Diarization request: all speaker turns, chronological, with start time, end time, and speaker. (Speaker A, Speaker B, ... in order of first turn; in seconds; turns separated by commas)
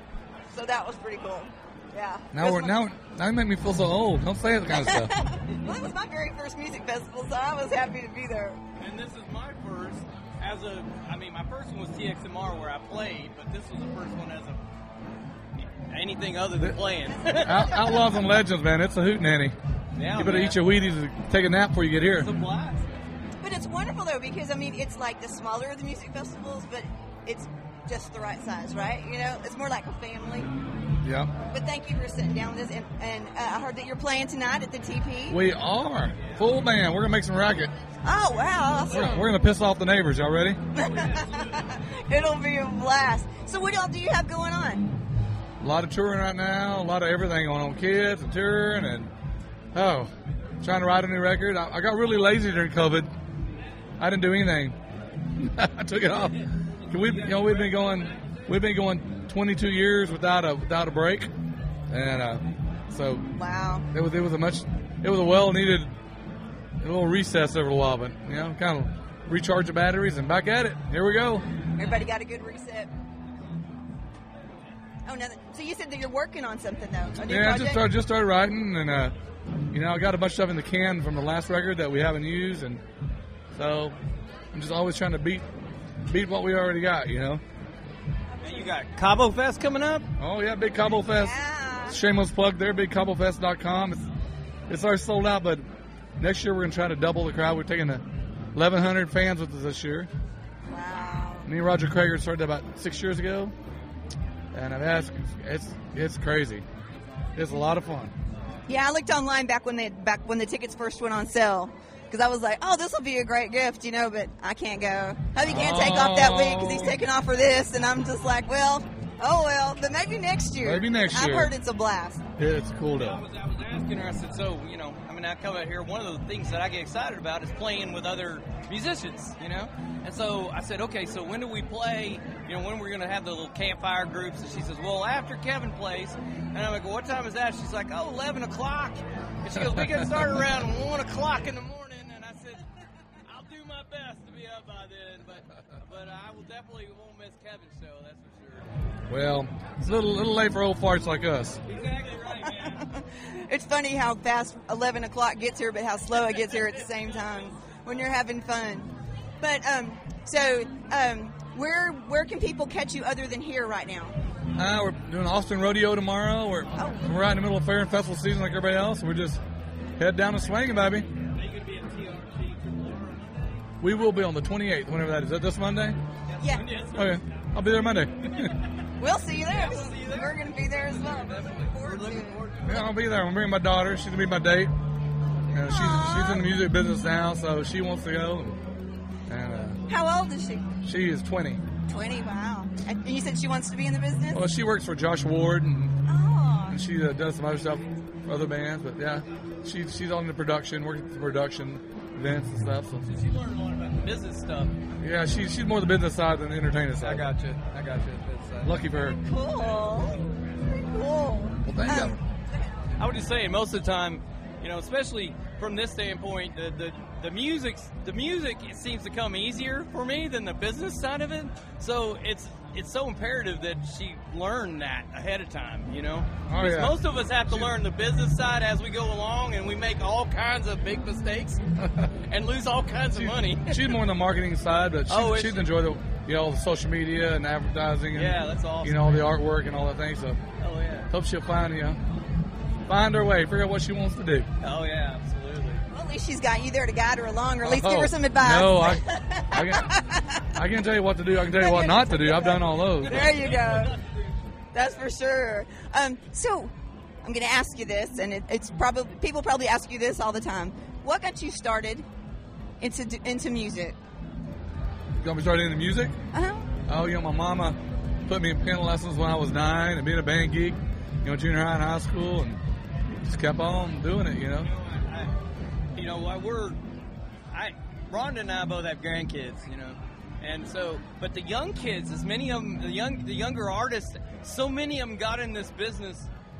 Speaker A: 0.5-2.8, Speaker B: 2.3-5.1, Speaker A: 4.7-8.6, Speaker C: 8.8-14.6, Speaker C: 15.8-17.9, Speaker A: 17.2-18.2, Speaker B: 17.4-19.6, Speaker C: 19.9-20.6, Speaker B: 20.1-22.3, Speaker C: 22.1-22.9, Speaker A: 23.4-30.5, Speaker B: 31.0-31.3, Speaker A: 31.5-35.4, Speaker B: 35.3-37.7, Speaker A: 38.0-39.2, Speaker B: 38.9-40.6, Speaker A: 40.7-44.9, Speaker C: 41.0-41.5, Speaker B: 45.6-49.1, Speaker B: 49.7-53.1, Speaker B: 54.0-54.8, Speaker B: 55.3-61.3, Speaker C: 56.9-58.2, Speaker B: 61.9-63.3, Speaker A: 63.3-63.8, Speaker B: 63.9-65.9, Speaker B: 66.8-71.4, Speaker A: 71.8-72.9, Speaker A: 75.0-77.9, Speaker B: 77.3-79.1, Speaker B: 79.7-82.8, Speaker B: 83.5-84.0, Speaker B: 84.5-85.5, Speaker B: 86.1-87.4, Speaker A: 88.3-88.7, Speaker C: 88.4-90.1, Speaker B: 90.2-91.3, Speaker A: 91.1-92.0, Speaker B: 91.9-94.1, Speaker B: 94.7-95.7, Speaker B: 96.2-98.0, Speaker B: 98.5-100.1, Speaker A: 100.7-101.5, Speaker B: 101.5-103.5, Speaker B: 104.5-106.6, Speaker B: 107.3-108.1, Speaker A: 108.7-122.2, Speaker B: 115.5-117.0, Speaker B: 120.6-121.5, Speaker B: 122.4-123.2, Speaker C: 122.9-142.7, Speaker C: 143.2-148.8, Speaker B: 149.1-151.6, Speaker C: 151.7-152.9, Speaker A: 152.2-164.1, Speaker C: 156.3-156.8, Speaker B: 164.6-169.4, Speaker A: 166.7-167.1, Speaker B: 170.0-171.1, Speaker C: 171.3-173.6, Speaker B: 173.8-176.0, Speaker C: 176.3-177.2, Speaker A: 176.4-176.7, Speaker B: 176.9-178.5, Speaker A: 179.0-182.4, Speaker C: 179.4-182.9, Speaker B: 182.6-184.7, Speaker B: 185.5-188.6, Speaker A: 185.6-186.5, Speaker B: 189.3-189.8, Speaker A: 189.9-190.7, Speaker B: 190.8-191.6, Speaker A: 191.9-194.4, Speaker B: 194.3-195.9, Speaker A: 196.1-196.8, Speaker B: 196.7-203.0, Speaker C: 203.0-204.7, Speaker B: 205.0-207.3, Speaker C: 206.9-208.7, Speaker B: 208.6-209.2, Speaker A: 209.2-212.8, Speaker B: 211.6-212.2, Speaker C: 213.0-231.6, Speaker B: 226.5-227.7, Speaker C: 232.3-233.9, Speaker B: 233.1-240.4, Speaker C: 235.1-235.7, Speaker C: 238.1-239.3, Speaker C: 240.6-241.1, Speaker B: 241.1-242.0, Speaker B: 242.9-244.5, Speaker C: 244.6-245.8, Speaker A: 245.9-250.6, Speaker B: 247.6-249.9, Speaker B: 250.5-253.4, Speaker A: 251.4-254.0, Speaker C: 253.0-254.0, Speaker A: 254.7-256.7, Speaker A: 257.2-262.1, Speaker A: 262.8-263.9, Speaker B: 265.1-266.1, Speaker A: 266.3-266.7, Speaker B: 266.9-272.6, Speaker B: 273.2-274.7, Speaker C: 274.6-275.3, Speaker C: 275.9-276.8, Speaker C: 277.5-286.3